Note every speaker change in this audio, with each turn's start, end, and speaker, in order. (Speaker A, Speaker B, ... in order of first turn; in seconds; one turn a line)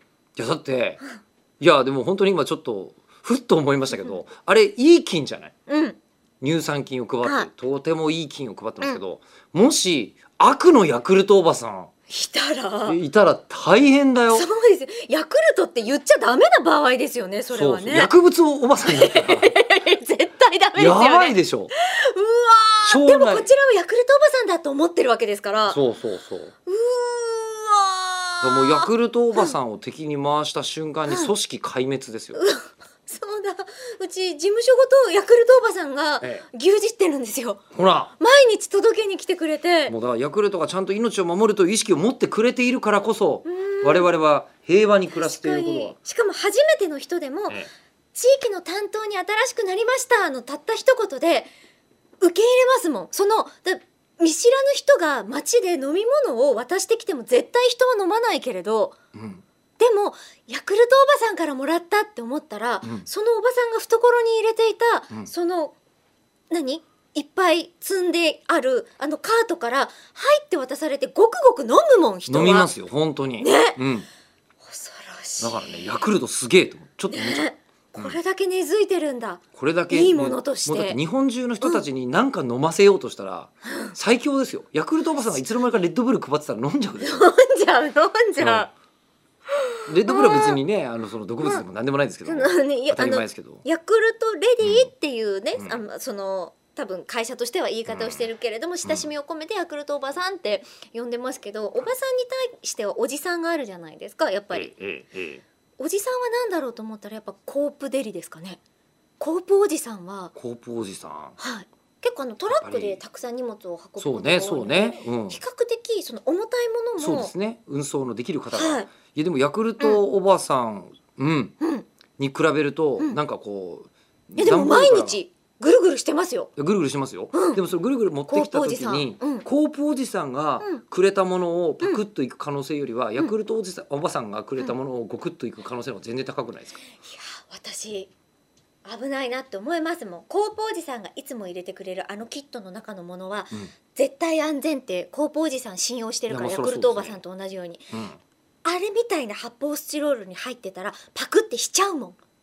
Speaker A: 0.3-1.0
Speaker A: 1.6-5.5
Speaker B: 5.7-6.0
Speaker A: 6.4-11.9
Speaker B: 7.2-7.5
Speaker B: 12.1-13.0
Speaker A: 12.8-14.5
Speaker B: 14.3-18.1
Speaker A: 17.5-19.5
Speaker B: 18.9-25.8
Speaker A: 20.8-21.7
Speaker A: 22.8-23.5
Speaker A: 25.7-26.5
Speaker B: 26.6-29.6
Speaker A: 28.4-32.4
Speaker B: 31.1-31.3
Speaker B: 32.3-37.6
Speaker A: 37.7-38.1
Speaker B: 38.2-39.9
Speaker A: 39.9-46.0
Speaker B: 43.4-44.1
Speaker B: 45.2-47.6
Speaker B: 48.1-51.5
Speaker B: 52.2-59.0
Speaker A: 59.1-59.4
Speaker B: 59.8-65.8
Speaker B: 66.5-72.7
Speaker A: 72.3-74.1
Speaker B: 73.4-73.8
Speaker B: 74.6-75.9
Speaker A: 75.4-78.2
Speaker B: 77.1-81.0
Speaker A: 79.5-87.2
Speaker B: 83.6-84.0
Speaker B: 87.0-88.7
Speaker A: 88.4-88.7
Speaker A: 89.9-93.6
Speaker B: 90.1-90.6
Speaker B: 92.2-104.7
Speaker A: 94.6-94.9
Speaker A: 95.5-95.8
Speaker A: 97.9-98.3
Speaker A: 104.5-105.4
Speaker B: 105.8-108.6
Speaker B: 109.2-110.3
Speaker A: 110.3-111.4
Speaker B: 111.4-117.3
Speaker A: 112.5-113.0
Speaker A: 114.0-115.4
Speaker A: 117.0-121.5
Speaker B: 118.5-118.9
Speaker B: 121.6-121.9
Speaker A: 122.2-125.2
Speaker B: 124.3-126.5
Speaker A: 126.5-136.8
Speaker B: 127.3-127.6
Speaker B: 128.3-129.5
Speaker B: 137.0-138.1
Speaker B: 138.8-147.9
Speaker A: 146.3-147.2
Speaker A: 147.9-148.2
Speaker B: 148.6-152.2